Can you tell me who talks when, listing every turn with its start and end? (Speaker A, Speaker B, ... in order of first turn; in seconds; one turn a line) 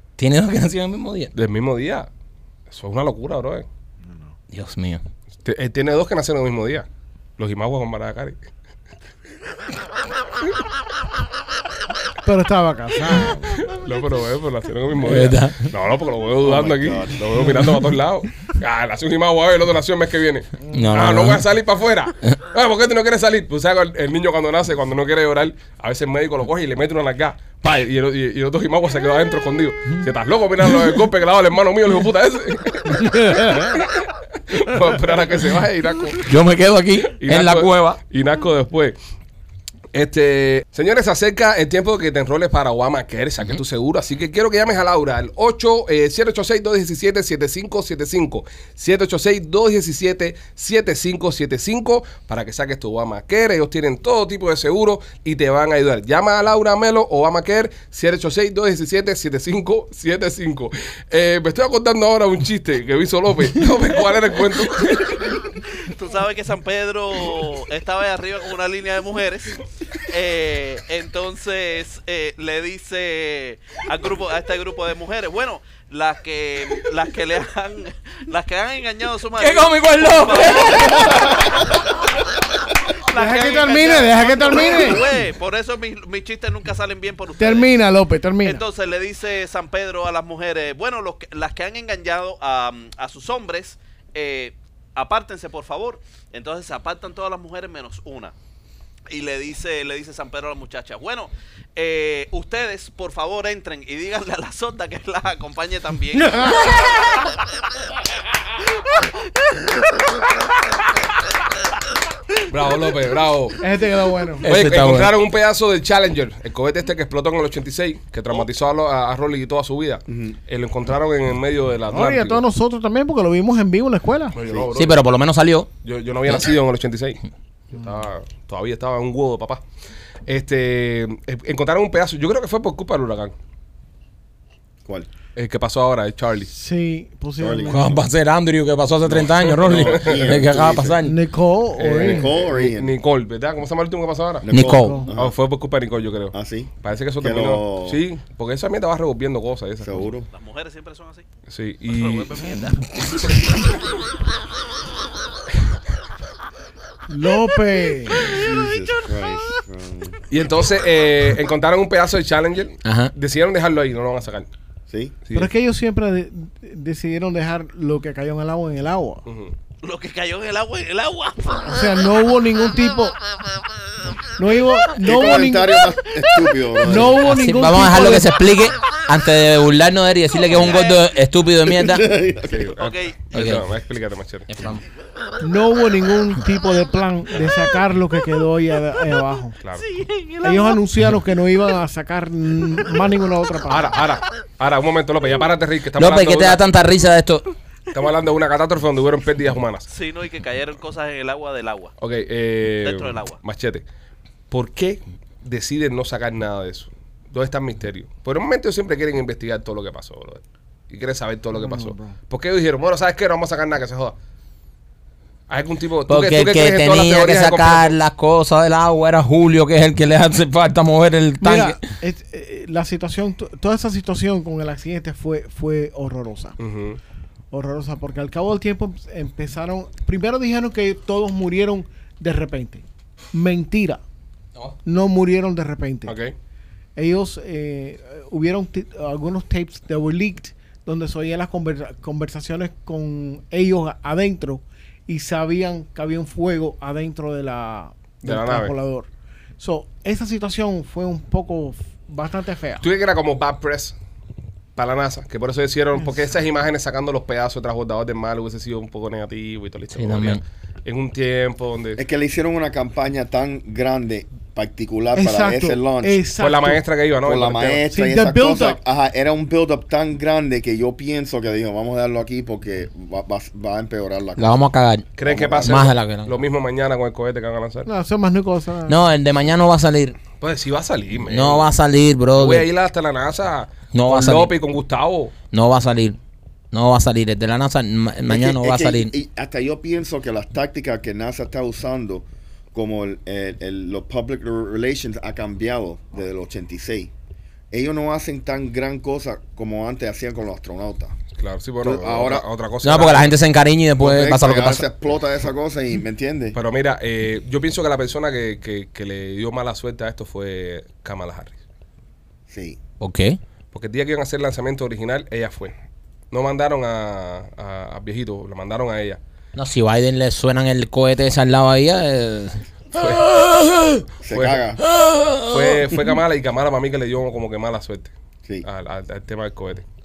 Speaker A: 0.2-1.3
Speaker B: 1.4-2.1
Speaker B: 2.7-3.7
Speaker C: 4.1-4.3
Speaker A: 4.5-5.0
Speaker B: 5.4-6.9
Speaker B: 7.4-8.4
Speaker C: 12.2-13.6
Speaker B: 13.2-36.3
Speaker A: 15.0-15.7
Speaker D: 16.4-17.4
Speaker A: 20.7-21.4
Speaker C: 33.2-33.8
Speaker A: 36.2-38.0
Speaker B: 37.1-39.0
Speaker B: 39.9-65.2
Speaker E: 65.8-81.8
Speaker A: 79.4-81.4
Speaker E: 83.0-87.7
Speaker C: 83.1-85.1
Speaker C: 87.4-88.6
Speaker E: 88.4-98.3
Speaker E: 99.1-107.3
Speaker C: 106.2-106.9
Speaker B: 112.5-113.6
Speaker C: 113.6-114.5
Speaker B: 114.4-122.4
Speaker A: 114.4-115.1
Speaker D: 120.1-120.4
Speaker C: 121.9-124.4
Speaker B: 124.3-125.0
Speaker A: 124.8-125.7
Speaker B: 125.8-129.6
Speaker B: 130.3-133.3
Speaker B: 135.4-136.5
Speaker C: 136.5-137.9
Speaker D: 137.4-138.1
Speaker A: 137.7-141.2
Speaker B: 139.1-140.4
Speaker D: 139.7-141.0
Speaker C: 141.0-142.3
Speaker B: 141.8-144.6
Speaker D: 142.0-142.9
Speaker D: 144.4-145.4
Speaker A: 144.5-145.1
Speaker C: 144.6-145.1
Speaker B: 145.1-150.1
Speaker D: 146.3-148.0
Speaker D: 149.8-150.3
Speaker E: 150.3-151.3
Speaker B: 151.5-152.5
Speaker E: 151.9-153.8
Speaker C: 157.1-158.3
Speaker D: 158.2-160.2
Speaker B: 160.3-164.5
Speaker A: 162.8-163.1
Speaker D: 164.9-165.2
Speaker B: 165.2-165.5
Speaker C: 165.3-169.2
Speaker B: 169.3-169.6
Speaker E: 169.8-171.9
Speaker C: 171.6-173.2
Speaker C: 174.3-175.8
Speaker D: 175.0-177.2
Speaker C: 176.8-178.4
Speaker A: 177.1-182.0
Speaker E: 180.5-181.0
Speaker D: 180.5-180.8
Speaker D: 181.7-182.8
Speaker B: 182.5-184.5
Speaker E: 182.8-183.2
Speaker A: 183.3-183.6
Speaker A: 184.5-184.8
Speaker C: 185.4-189.6
Speaker B: 189.6-189.9
Speaker E: 189.8-190.8
Speaker C: 190.4-193.9
Speaker B: 193.7-196.7
Speaker A: 196.0-197.5
Speaker B: 197.9-199.9
Speaker E: 199.9-201.9
Speaker B: 202.0-203.8
Speaker E: 202.8-203.4
Speaker B: 204.5-214.2
Speaker C: 211.6-212.2
Speaker B: 215.5-218.0
Speaker A: 216.1-221.8
Speaker C: 221.4-226.6
Speaker B: 226.6-227.0
Speaker C: 227.5-234.0
Speaker C: 234.8-236.2
Speaker B: 236.1-236.3
Speaker C: 237.0-249.1
Speaker B: 248.2-248.7
Speaker C: 249.6-252.8
Speaker B: 252.8-253.9
Speaker B: 254.8-262.0
Speaker A: 259.9-260.4
Speaker D: 262.0-266.2
Speaker C: 265.1-266.8
Speaker B: 266.4-267.9
Speaker D: 267.2-274.6
Speaker C: 267.9-268.8
Speaker A: 274.4-276.4
Speaker B: 275.2-277.9
Speaker D: 275.3-275.8
Speaker C: 277.9-279.0
Speaker A: 278.9-280.2
Speaker B: 280.4-281.7
Speaker A: 281.3-282.7
Speaker B: 282.3-285.4
Speaker A: 283.9-284.6
Speaker A: 285.5-286.2
Speaker A: 286.7-289.1
Speaker D: 288.3-297.1
Speaker D: 297.7-301.2
Speaker B: 301.4-303.4
Speaker D: 301.8-302.5
Speaker A: 302.8-304.9
Speaker D: 304.0-306.6
Speaker B: 306.6-311.6
Speaker D: 312.5-312.8
Speaker A: 313.0-313.4
Speaker B: 313.7-315.8
Speaker B: 316.3-319.2
Speaker A: 319.6-322.6
Speaker B: 322.9-323.4
Speaker A: 323.4-323.8
Speaker D: 324.2-324.8
Speaker B: 324.3-324.6
Speaker A: 325.0-325.9
Speaker B: 325.5-329.9